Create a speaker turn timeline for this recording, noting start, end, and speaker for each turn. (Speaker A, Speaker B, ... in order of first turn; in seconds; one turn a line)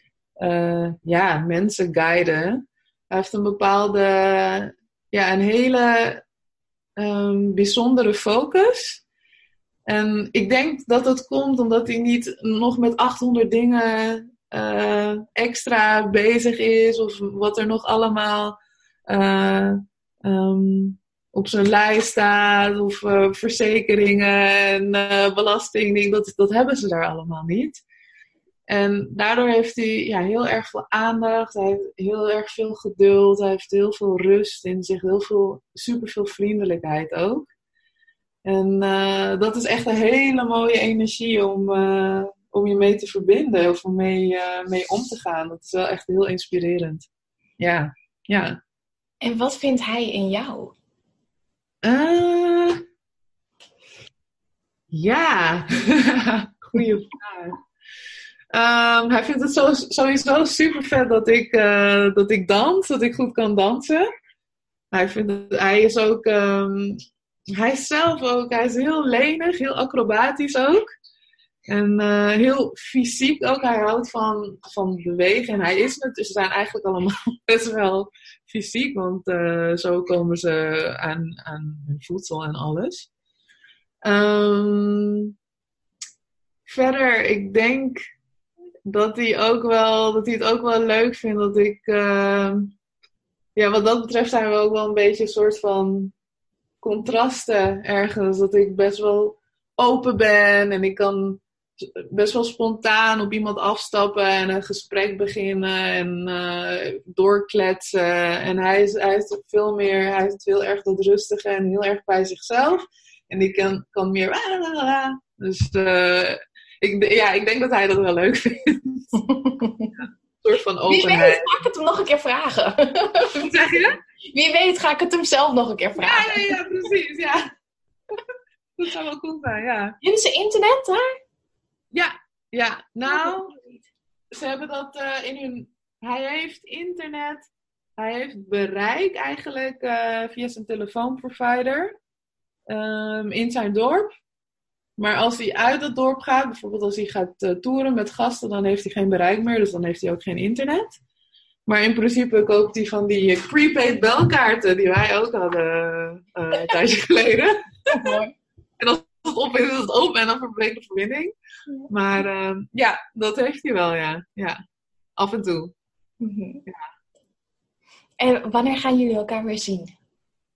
Speaker A: 0.4-6.2
Speaker A: 7.0-9.0
Speaker A: 9.9-18.6
Speaker A: 19.1-27.8
Speaker A: 28.7-37.5
Speaker A: 38.4-47.1
Speaker A: 47.6-48.6
Speaker B: 49.2-50.7
Speaker A: 51.8-52.8
Speaker A: 54.9-57.6
Speaker A: 58.5-64.1
Speaker A: 64.9-67.0
Speaker A: 67.6-70.8
Speaker A: 71.7-83.1
Speaker A: 84.0-85.3
Speaker A: 86.7-88.0
Speaker A: 88.9-92.7
Speaker A: 93.5-96.1
Speaker A: 96.8-119.2
Speaker B: 119.1-119.9
Speaker A: 120.4-121.6
Speaker B: 120.9-123.5
Speaker A: 123.2-124.0
Speaker B: 124.2-126.6
Speaker A: 126.0-127.5
Speaker A: 128.8-130.0
Speaker B: 130.0-131.1
Speaker A: 131.9-133.5
Speaker B: 133.1-133.9
Speaker A: 134.3-137.4
Speaker A: 138.0-141.9
Speaker A: 142.7-144.1
Speaker A: 145.0-151.0
Speaker A: 151.7-158.2
Speaker B: 157.9-158.3
Speaker A: 158.8-161.3
Speaker A: 161.9-164.6
Speaker A: 165.2-165.7
Speaker B: 166.2-166.7
Speaker B: 168.2-169.9